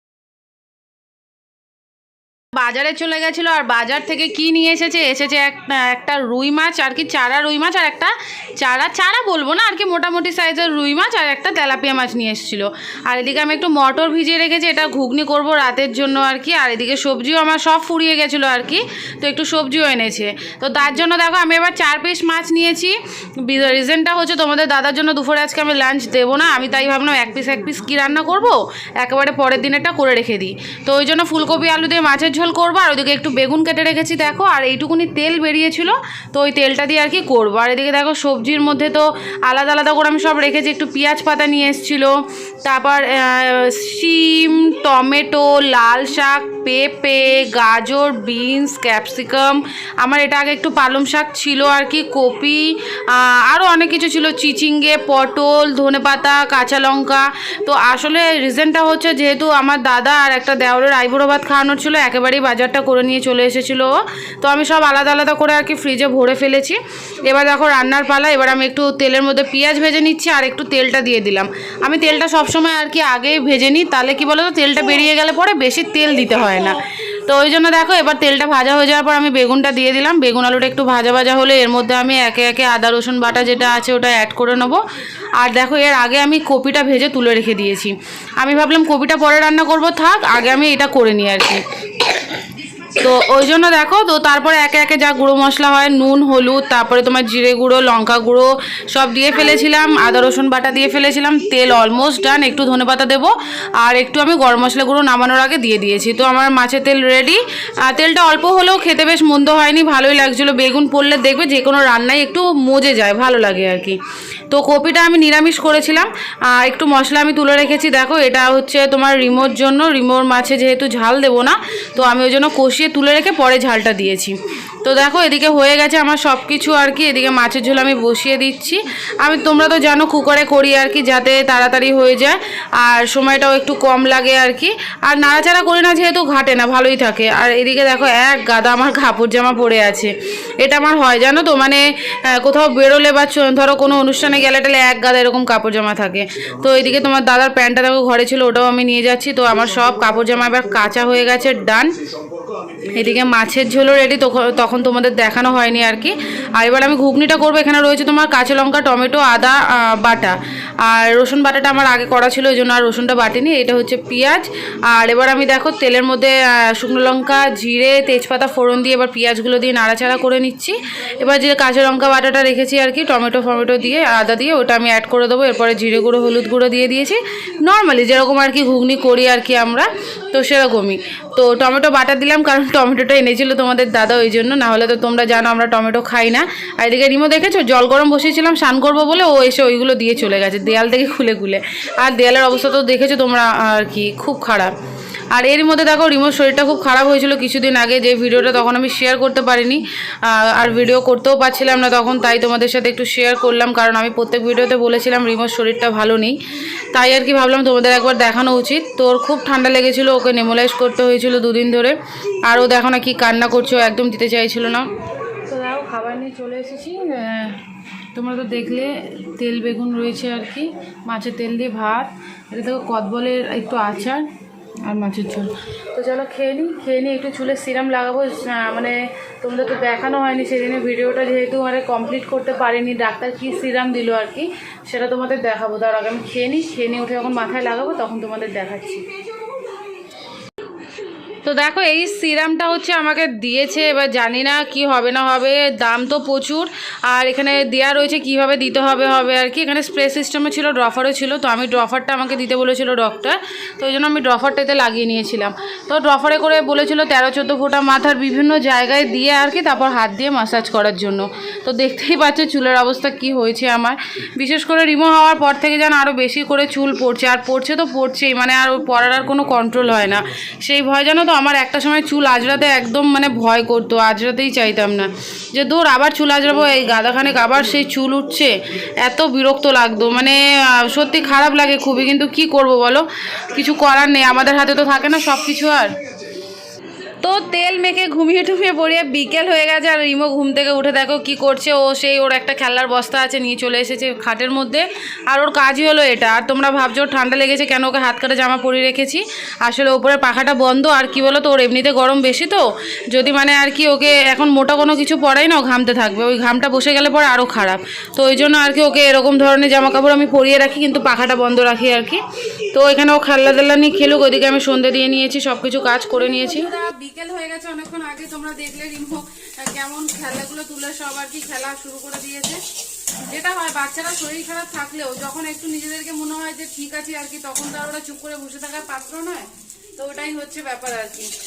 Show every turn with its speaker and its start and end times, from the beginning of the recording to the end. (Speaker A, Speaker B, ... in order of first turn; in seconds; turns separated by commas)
Speaker A: 2.5-84.8, Speaker A: 85.4-91.6, Speaker A: 92.8-151.9, Speaker A: 152.8-194.7, Speaker A: 195.3-206.4, Speaker A: 206.9-214.9, Speaker A: 215.4-217.6, Speaker A: 218.1-224.3, Speaker A: 224.8-239.0, Speaker A: 241.4-286.0, Speaker A: 287.2-322.6, Speaker A: 323.2-331.3